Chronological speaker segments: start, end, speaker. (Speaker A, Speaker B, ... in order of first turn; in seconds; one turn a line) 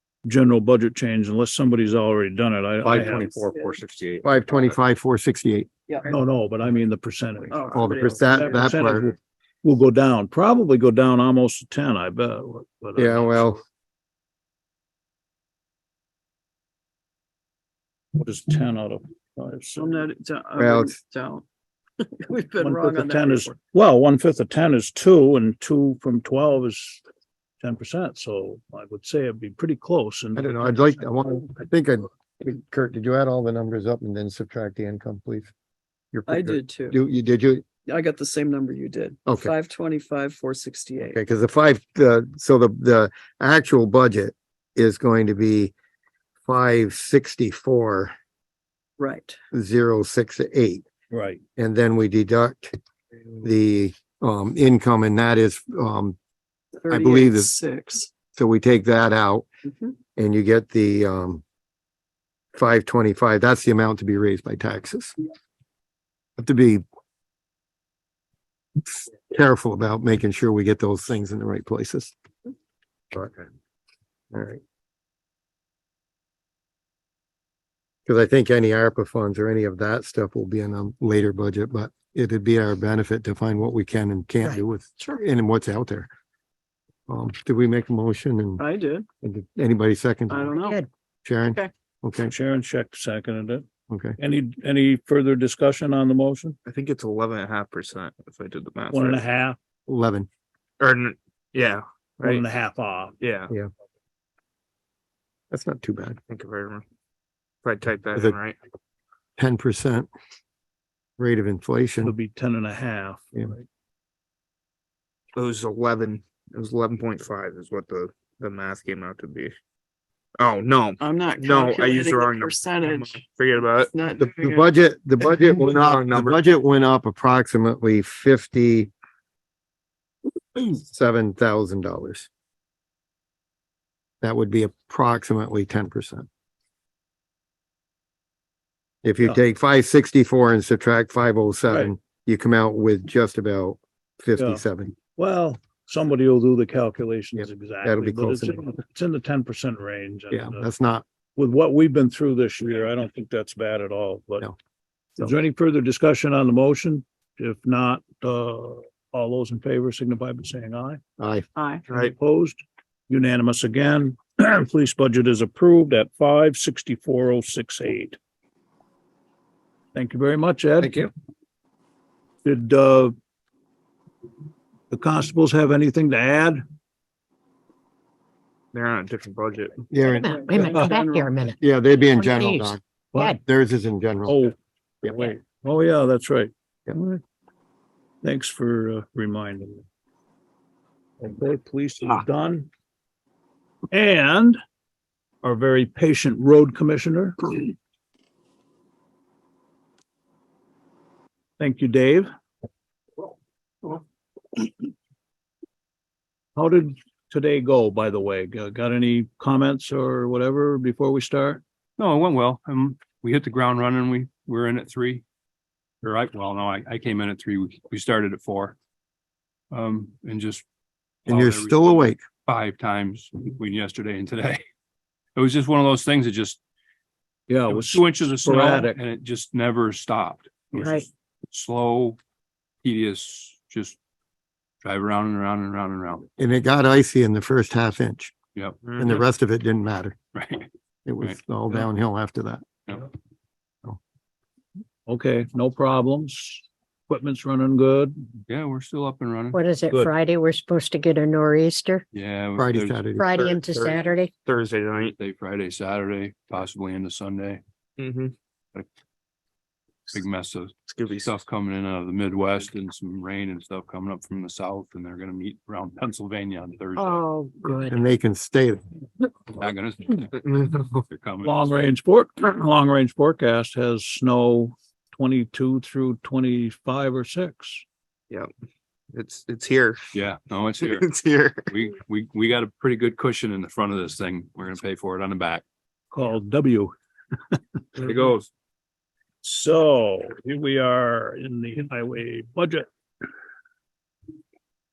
Speaker A: 0.2-3.3
Speaker B: 2.8-4.2
Speaker C: 3.2-3.8
Speaker D: 3.6-4.7
Speaker E: 4.2-5.7
Speaker C: 5.9-6.2
Speaker A: 6.1-13.6
Speaker C: 7.5-8.8
Speaker E: 7.7-9.1
Speaker E: 12.9-13.6
Speaker A: 18.1-20.0
Speaker C: 19.8-21.4
Speaker E: 20.6-21.0
Speaker C: 22.0-23.6
Speaker A: 22.6-27.0
Speaker A: 27.6-31.0
Speaker E: 30.3-35.5
Speaker E: 36.1-37.6
Speaker C: 36.3-37.0
Speaker C: 37.9-41.2
Speaker E: 39.3-39.5
Speaker E: 41.0-45.7
Speaker E: 46.5-48.1
Speaker C: 49.0-49.4
Speaker E: 49.5-50.8
Speaker A: 51.1-51.4
Speaker E: 51.6-52.7
Speaker E: 53.4-56.2
Speaker C: 56.8-58.1
Speaker E: 56.9-57.5
Speaker E: 58.3-59.5
Speaker C: 59.7-59.9
Speaker E: 60.1-61.4
Speaker E: 62.5-65.1
Speaker E: 66.4-66.8
Speaker E: 68.8-72.1
Speaker E: 74.3-74.6
Speaker E: 78.1-86.1
Speaker E: 87.1-88.6
Speaker C: 88.6-89.1
Speaker E: 89.2-90.5
Speaker C: 90.3-90.8
Speaker E: 91.2-92.3
Speaker A: 92.2-93.7
Speaker E: 93.9-94.2
Speaker A: 94.2-96.6
Speaker D: 96.6-99.2
Speaker A: 98.9-99.6
Speaker E: 99.9-100.3
Speaker D: 100.8-102.4
Speaker A: 102.2-103.2
Speaker D: 103.2-103.5
Speaker E: 105.5-106.2
Speaker D: 106.3-106.8
Speaker D: 107.6-108.6
Speaker E: 109.4-110.1
Speaker E: 111.2-112.1
Speaker A: 112.0-113.6
Speaker D: 115.3-119.5
Speaker D: 120.4-123.9
Speaker C: 121.0-124.7
Speaker E: 124.2-128.9
Speaker D: 125.4-126.5
Speaker E: 130.6-132.3
Speaker E: 134.2-136.3
Speaker E: 139.0-144.9
Speaker A: 141.7-141.9
Speaker A: 144.4-150.6
Speaker E: 147.3-148.6
Speaker E: 150.3-151.0
Speaker A: 151.4-154.5
Speaker A: 155.2-161.0
Speaker E: 161.2-161.4
Speaker C: 161.6-161.8
Speaker A: 161.9-168.2
Speaker A: 169.9-171.1
Speaker E: 170.8-171.1
Speaker A: 172.4-173.1
Speaker A: 174.9-176.6
Speaker D: 178.7-179.8
Speaker E: 179.9-180.8
Speaker C: 180.1-181.3
Speaker F: 180.1-183.4
Speaker E: 181.6-184.4
Speaker A: 184.3-187.2
Speaker A: 188.2-189.8
Speaker A: 191.2-192.7
Speaker A: 193.9-194.6
Speaker A: 195.4-197.7
Speaker A: 201.6-202.3
Speaker A: 206.6-211.6
Speaker B: 212.0-215.2
Speaker B: 216.0-218.8
Speaker B: 219.7-220.6
Speaker B: 221.2-224.6
Speaker E: 221.3-222.2
Speaker B: 225.3-226.6
Speaker A: 227.5-229.0
Speaker B: 227.7-232.2
Speaker F: 230.7-231.1
Speaker B: 232.8-234.0
Speaker B: 234.8-236.3
Speaker E: 236.4-238.3
Speaker B: 238.6-239.2
Speaker D: 238.8-239.2
Speaker E: 239.0-240.2
Speaker B: 240.3-240.7
Speaker E: 241.1-242.6
Speaker A: 245.1-248.2
Speaker B: 248.5-249.6
Speaker F: 249.5-252.0
Speaker B: 252.1-253.0
Speaker E: 252.6-253.2
Speaker F: 253.2-254.3
Speaker D: 253.3-255.1
Speaker B: 255.2-257.6
Speaker D: 258.0-258.3
Speaker B: 260.1-267.2
Speaker D: 260.9-261.3
Speaker F: 266.9-268.1
Speaker E: 267.9-268.8
Speaker B: 269.5-271.6
Speaker D: 270.4-271.0
Speaker A: 271.4-277.8
Speaker D: 279.1-280.1
Speaker B: 280.1-281.1
Speaker D: 280.8-281.7
Speaker B: 281.7-285.6
Speaker A: 286.1-286.9
Speaker D: 288.0-288.4
Speaker B: 288.0-288.4
Speaker A: 289.4-292.9